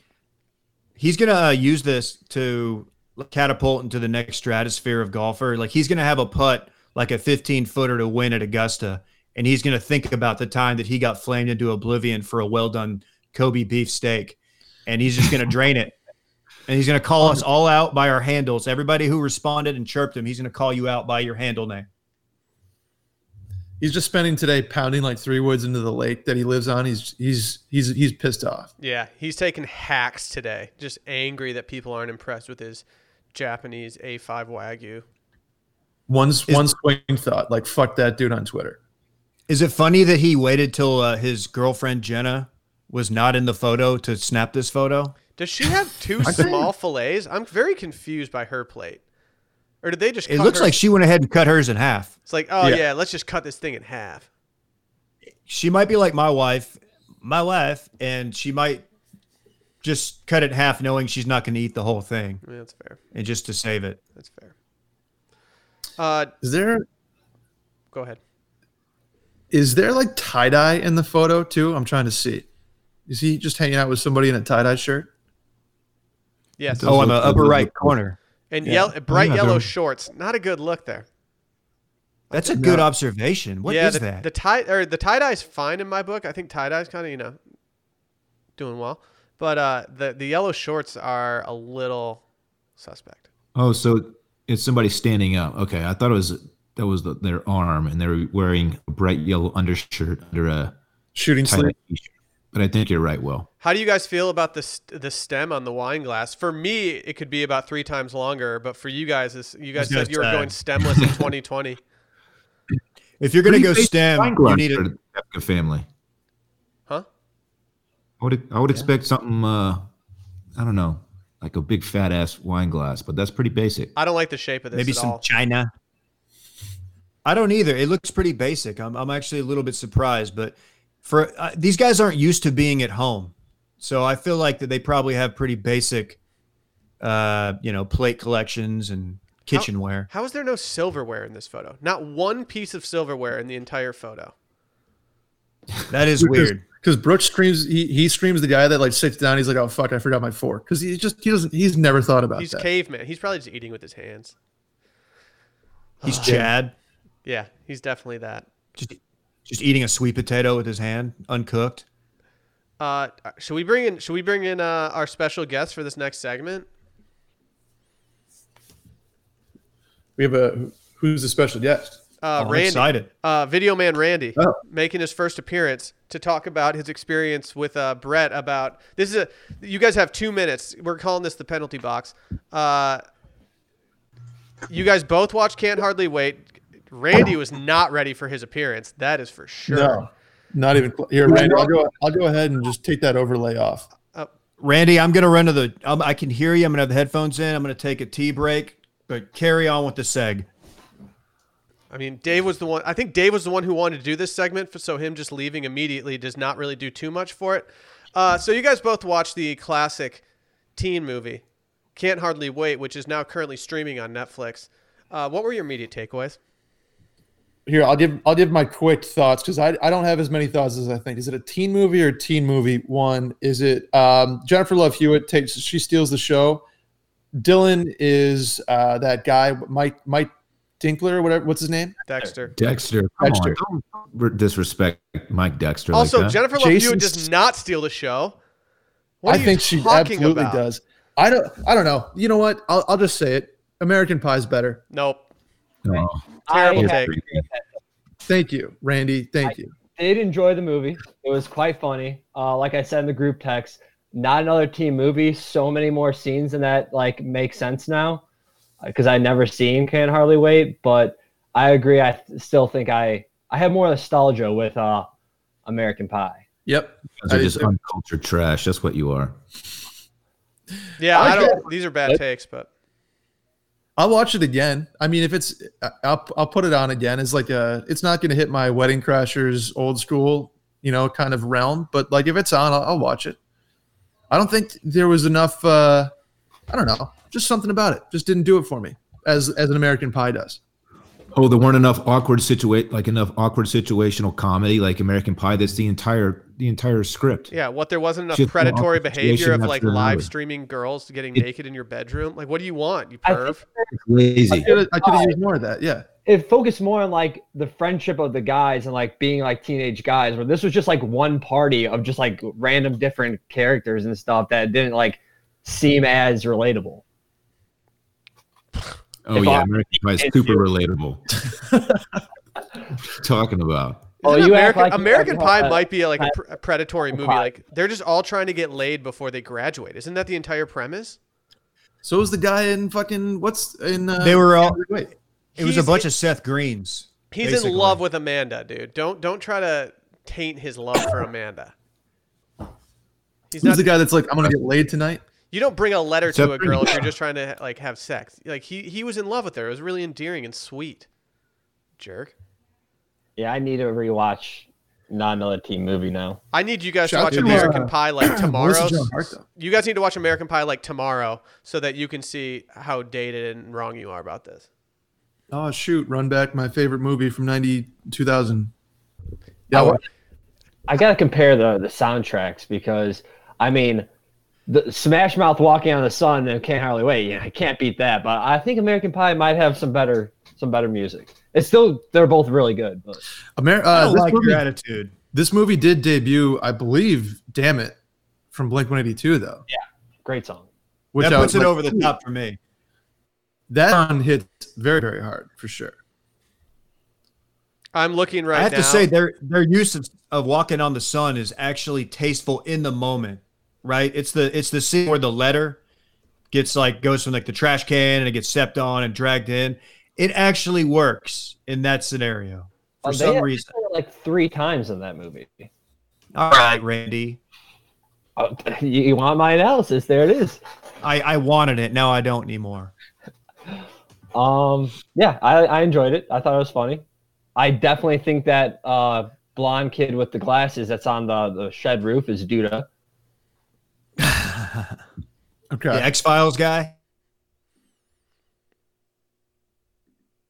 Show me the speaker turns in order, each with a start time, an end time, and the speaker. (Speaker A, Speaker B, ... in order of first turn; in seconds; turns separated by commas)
Speaker A: 1.0-15.9, Speaker A: 16.7-21.9, Speaker B: 23.8-28.7, Speaker C: 28.8-35.0, Speaker B: 36.1-38.8, Speaker A: 39.5-45.1, Speaker C: 45.4-49.0, Speaker B: 46.2-46.7, Speaker C: 49.8-50.8, Speaker A: 50.3-52.1, Speaker C: 52.3-54.3, Speaker A: 55.5-58.9, Speaker A: 59.8-62.4, Speaker C: 62.4-63.0, Speaker A: 63.1-64.0, Speaker C: 64.2-64.5, Speaker C: 66.0-66.3, Speaker B: 66.4-66.8, Speaker C: 67.9-68.2, Speaker B: 69.5-72.5, Speaker B: 73.1-75.1, Speaker C: 76.6-77.0, Speaker D: 76.7-78.0, Speaker A: 76.9-78.2, Speaker C: 78.5-81.1, Speaker B: 78.6-78.9, Speaker D: 79.1-79.7, Speaker A: 82.3-84.3, Speaker C: 82.3-82.6, Speaker B: 82.6-82.9, Speaker C: 83.7-87.4, Speaker C: 88.6-92.2, Speaker C: 92.8-93.3, Speaker D: 93.5-100.8, Speaker B: 101.2-101.7, Speaker D: 101.4-103.5, Speaker C: 103.6-111.8, Speaker A: 109.8-110.5, Speaker A: 113.2-114.8, Speaker D: 113.5-115.9, Speaker D: 118.2-119.8, Speaker D: 120.6-123.9, Speaker C: 124.0-125.2, Speaker A: 124.7-125.7, Speaker A: 127.2-136.2, Speaker A: 137.0-140.1, Speaker C: 139.5-144.3, Speaker A: 145.9-146.6, Speaker B: 146.2-152.7, Speaker C: 152.4-154.3, Speaker A: 156.0-156.7, Speaker C: 156.1-156.4, Speaker B: 156.2-156.5, Speaker C: 157.2-158.5, Speaker A: 158.8-161.8, Speaker C: 162.8-166.7, Speaker B: 170.2-172.0, Speaker C: 172.2-183.0, Speaker A: 172.4-173.1, Speaker C: 184.7-190.1, Speaker B: 189.7-193.9, Speaker A: 191.3-191.7, Speaker A: 194.6-200.5, Speaker C: 201.9-210.2, Speaker C: 210.8-211.4, Speaker C: 211.9-216.4, Speaker B: 217.7-226.6, Speaker B: 227.3-232.0, Speaker C: 232.1-232.5, Speaker D: 232.6-236.4, Speaker B: 233.2-233.6, Speaker C: 235.9-238.4, Speaker B: 236.6-237.3, Speaker C: 239.2-240.6, Speaker B: 239.3-244.8, Speaker C: 244.9-245.2, Speaker D: 245.8-247.4, Speaker E: 246.5-247.7, Speaker C: 246.5-247.1, Speaker B: 248.3-249.8, Speaker E: 249.4-258.2, Speaker E: 258.8-265.1, Speaker E: 265.7-266.4, Speaker B: 266.7-267.7, Speaker D: 267.2-269.4, Speaker C: 271.0-272.7, Speaker B: 271.1-271.7, Speaker B: 274.0-283.4, Speaker B: 284.3-286.1, Speaker B: 286.7-290.6, Speaker D: 291.3-297.5, Speaker C: 297.5-303.6, Speaker D: 298.3-300.3, Speaker E: 303.2-303.9, Speaker D: 304.0-304.7, Speaker E: 304.5-305.4, Speaker B: 304.5-306.1, Speaker E: 306.3-317.0, Speaker D: 319.3-321.3, Speaker E: 319.3-320.6, Speaker D: 323.1-324.1, Speaker E: 324.2-326.4, Speaker C: 324.2-331.2, Speaker E: 327.1-327.5, Speaker B: 332.0-335.1, Speaker A: 334.2-334.8, Speaker C: 335.6-336.1, Speaker A: 335.6-338.0, Speaker C: 337.3-341.7, Speaker C: 343.5-343.9, Speaker B: 343.6-345.2, Speaker C: 345.5-351.1, Speaker D: 346.3-347.1, Speaker C: 352.0-352.3, Speaker E: 353.4-356.4, Speaker C: 356.5-364.6, Speaker B: 357.1-359.4, Speaker A: 357.3-357.8, Speaker B: 365.5-368.7, Speaker B: 369.7-370.0, Speaker E: 370.9-374.1, Speaker E: 374.7-383.2, Speaker B: 383.6-384.6, Speaker A: 383.9-385.1, Speaker B: 385.3-388.0, Speaker B: 388.5-389.6, Speaker E: 389.7-390.7, Speaker B: 391.1-392.1, Speaker A: 391.2-392.6, Speaker B: 393.7-396.0, Speaker C: 397.9-399.1, Speaker A: 398.5-405.8, Speaker A: 406.5-413.7, Speaker E: 413.0-415.7, Speaker A: 416.4-417.4, Speaker E: 418.4-420.6, Speaker A: 421.0-422.9, Speaker E: 424.3-427.0, Speaker E: 427.6-432.9, Speaker A: 434.2-434.9, Speaker B: 435.7-436.1, Speaker A: 435.9-437.0